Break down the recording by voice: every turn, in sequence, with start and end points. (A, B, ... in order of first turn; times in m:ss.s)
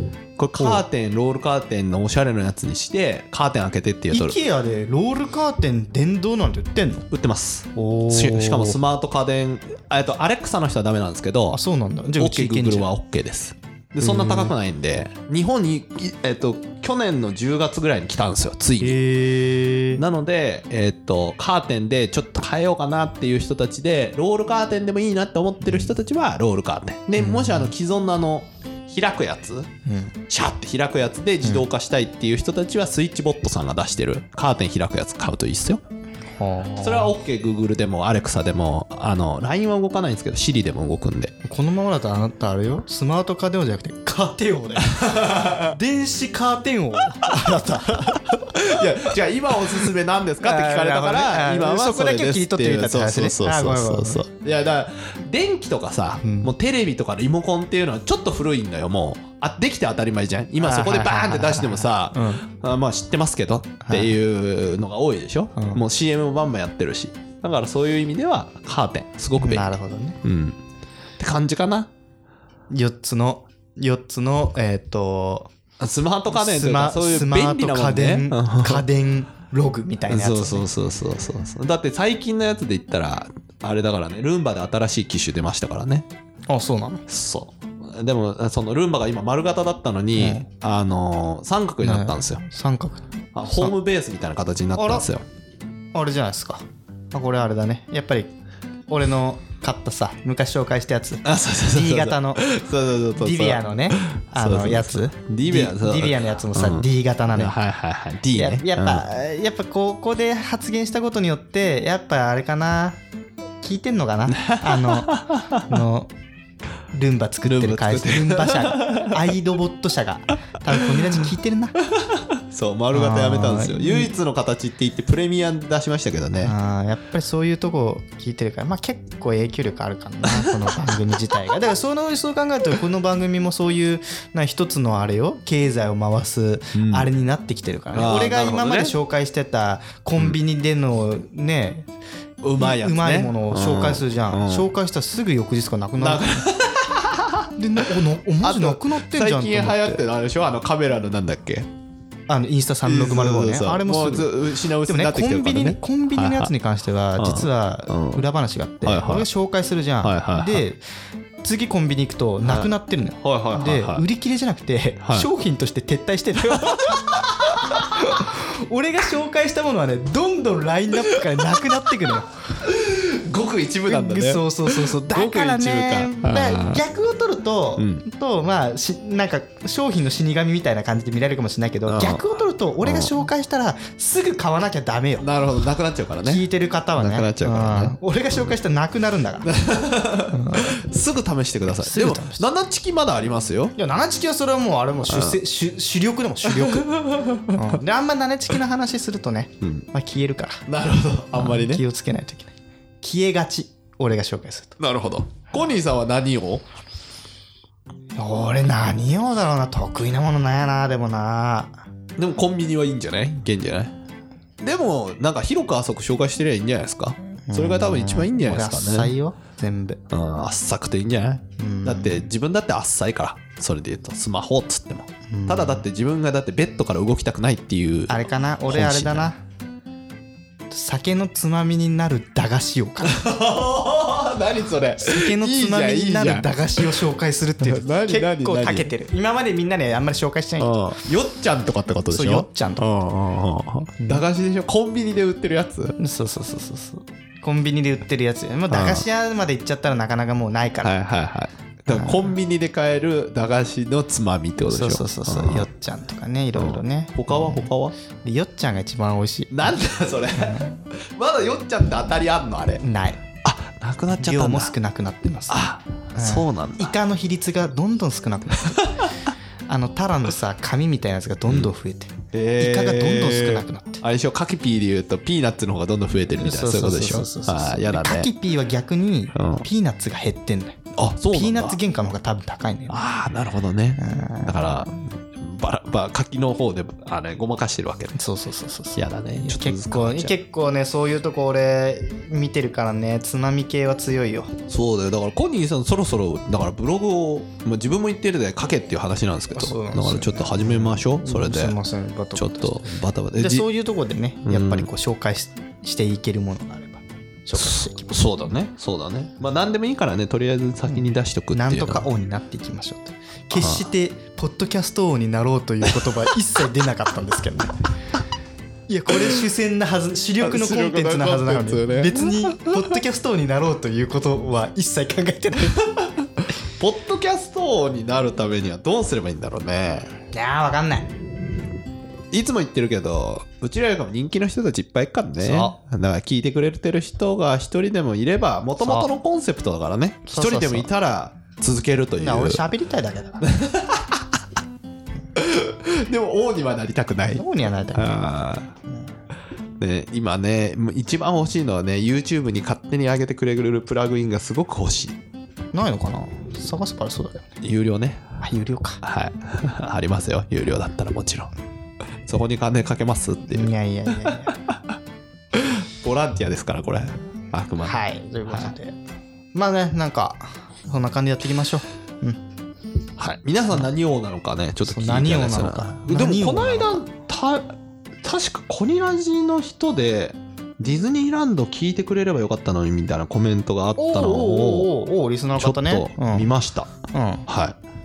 0:00.4-0:04.4 A
0:00.6-0:00.8 B
0:04.1-0:07.1 B
0:07.1-0:11.6 A
0:07.8-0:08.8 B
0:11.5-0:12.9 B
0:12.2-0:19.0 A
0:14.0-0:14.5 B
0:18.8-0:20.0 B
0:20.0-0:29.7 A
0:25.6-0:25.9 B
0:27.2-0:27.7 B
0:29.9-0:30.2 B
0:30.3-0:35.8 A
0:36.4-0:37.2 B
0:36.8-0:41.3 A
0:41.4-0:48.8 B
0:44.8-0:45.8 A
0:47.2-1:09.7 A
0:50.4-0:54.2 B
0:56.2-0:56.5 B
1:00.6-1:02.5 B
1:03.8-1:04.2 B
1:05.6-1:05.8 B
1:09.4-1:10.2 B
1:10.2-1:10.6 A
1:11.2-1:11.9 A
1:12.7-1:15.5 B
1:15.8-1:18.8 A
1:16.3-1:20.7 B
1:20.1-1:26.1 A
1:26.5-1:27.1 B
1:27.1-1:32.4 A
1:30.2-1:30.5 B
1:31.8-1:33.7 B
1:33.4-1:35.2 A
1:34.8-1:35.1 B
1:35.9-1:38.3 B
1:38.9-1:42.4 B
1:41.2-1:49.1 A
1:43.2-1:47.6 B
1:48.4-1:53.0 B
1:53.6-1:56.1 B
1:54.4-1:55.8 A
1:56.9-2:01.8 B
1:57.4-1:59.3 A
2:02.0-2:06.6 A
2:02.9-2:04.1 B
2:06.4-2:21.9 B
2:10.3-2:10.6 A
2:16.8-2:17.1 A
2:17.9-2:19.0 A
2:22.4-2:24.7 A
2:22.6-2:26.5 B
2:26.0-2:27.9 A
2:27.6-2:30.0 B
2:28.4-2:31.7 A
2:32.3-2:40.8 B
2:32.8-2:36.5 A
2:37.2-2:38.2 A
2:38.8-2:39.3 A
2:40.0-2:40.6 A
2:41.4-2:52.4 B
2:42.4-2:44.0 A
2:45.0-2:45.3 A
2:46.6-2:47.8 A
2:52.6-2:56.8 A
2:53.9-3:05.3 B
2:57.8-2:58.0 A
3:01.9-3:02.2 A
3:02.8-3:03.1 A
3:05.2-3:06.4 A
3:06.2-3:09.5 B
3:07.0-3:08.0 A
3:09.4-3:13.7 A
3:10.3-3:10.8 B
3:11.8-3:12.5 B
3:13.8-3:16.9 B
3:15.1-3:15.4 A
3:16.4-3:17.8 A
3:17.5-3:20.6 B
3:20.7-3:21.8 A
3:21.3-3:24.8 B
3:24.8-3:26.6 A
3:28.2-3:31.8 B
3:32.2-3:33.9 A
3:34.6-3:39.2 A
3:37.5-3:40.0 B
3:40.1-3:49.3 A
3:41.6-3:42.3 B
3:45.3-3:45.9 B
3:48.1-3:49.4 B
3:50.7-3:53.2 B
3:53.0-3:57.0 A
3:55.0-4:01.0 B
3:57.6-3:58.9 A
4:00.6-4:06.0 A
4:02.1-4:02.9 B
4:04.0-4:04.2 B
4:06.0-4:11.0 B
4:08.7-4:09.1 A
4:10.8-4:15.7 A
4:11.9-4:12.3 B
4:14.7-4:19.7 B
4:16.6-4:18.0 A
4:19.5-4:22.8 A
4:20.4-4:20.8 B
4:22.8-4:23.2 B
4:23.4-4:24.7 A
4:24.1-4:29.0 B
4:25.5-4:26.9 A
4:28.7-4:29.0 A
4:29.7-4:34.0 B
4:32.3-4:38.3 A
4:36.4-4:40.8 B
4:39.4-4:39.6 A
4:40.9-4:41.8 A
4:41.3-4:43.0 B
4:42.9-4:48.2 A
4:44.0-4:44.8 B
4:48.2-4:54.6 B
4:49.0-4:50.4 A
4:54.7-5:01.8 A
4:59.5-5:08.2 B
5:02.4-5:03.7 A
5:04.4-5:04.9 A
5:07.6-5:12.1 A
5:10.9-5:17.8 B
5:13.5-5:13.9 A
5:18.9-5:25.8 B
5:20.4-5:23.0 A
5:26.8-5:30.2 A
5:30.3-5:31.1 B
5:32.3-5:42.6 A
5:35.4-5:35.8 B
5:38.8-5:39.1 B
5:40.3-5:40.9 B
5:42.2-5:43.5 B
5:43.4-5:44.4 A
5:45.4-5:48.7 A
5:47.3-5:48.2 B
5:49.8-5:55.2 A
5:55.7-5:57.5 B
5:57.6-5:58.2 A
5:58.4-5:59.0 B
5:59.0-6:01.5 A
6:02.3-6:04.9 A
6:03.5-6:04.6 B
6:05.5-6:08.7 A
6:07.8-6:09.0 B
6:09.5-6:12.4 B
6:13.2-6:24.9 A
6:14.9-6:17.0 B
6:24.0-6:26.5 B
6:25.6-6:26.9 A
6:27.1-6:27.5 B
6:27.5-6:27.8 A